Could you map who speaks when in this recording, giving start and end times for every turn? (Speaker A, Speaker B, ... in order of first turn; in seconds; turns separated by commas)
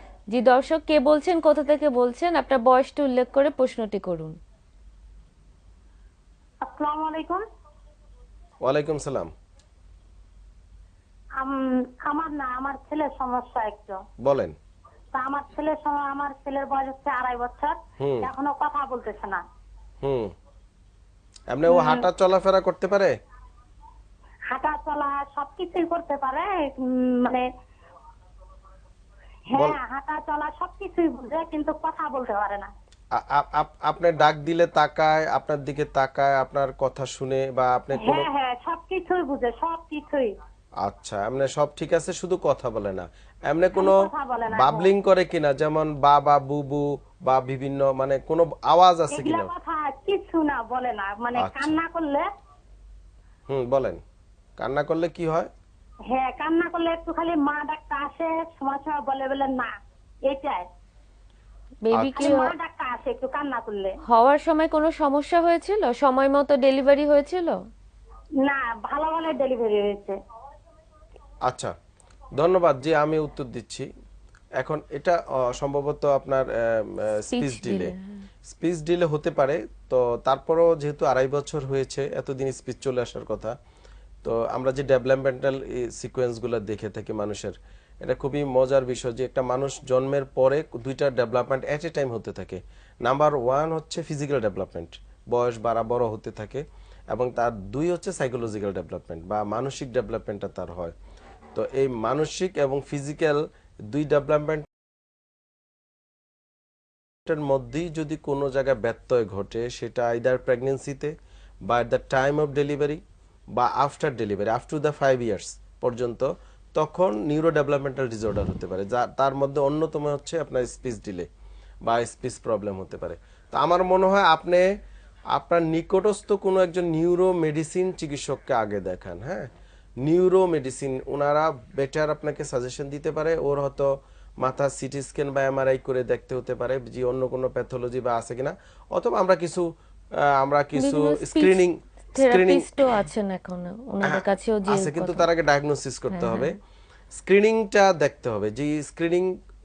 Speaker A: 0.3-4.4, Speaker B: 6.6-7.4, Speaker C: 8.6-9.3, Speaker B: 11.4-14.0, Speaker C: 14.2-14.6, Speaker B: 15.1-19.4, Speaker C: 18.0-18.3, Speaker C: 20.0-20.3, Speaker C: 21.5-23.1, Speaker B: 21.7-22.1, Speaker B: 24.5-27.4, Speaker B: 29.5-32.7, Speaker C: 33.1-38.3, Speaker B: 37.9-40.3, Speaker C: 40.8-49.5, Speaker B: 43.8-44.9, Speaker B: 49.1-52.2, Speaker C: 51.4-51.8, Speaker C: 53.5-54.0, Speaker C: 54.6-55.5, Speaker B: 56.1-59.7, Speaker B: 60.3-60.7, Speaker A: 61.8-62.5, Speaker C: 61.9-62.4, Speaker B: 62.1-64.0, Speaker A: 64.1-67.6, Speaker B: 68.4-70.2, Speaker C: 71.5-71.7, Speaker C: 72.4-73.9, Speaker C: 74.6-77.9, Speaker A: 77.2-78.3, Speaker C: 78.5-83.5, Speaker C: 84.2-100.9, Speaker C: 101.5-104.7, Speaker C: 107.2-111.1, Speaker C: 111.7-113.0, Speaker C: 113.5-121.3, Speaker C: 121.8-124.6, Speaker C: 125.3-129.5, Speaker C: 130.0-139.7, Speaker C: 140.2-142.7, Speaker A: 140.8-141.6, Speaker A: 142.1-145.3, Speaker C: 144.0-146.5, Speaker A: 146.1-146.5, Speaker C: 147.1-149.3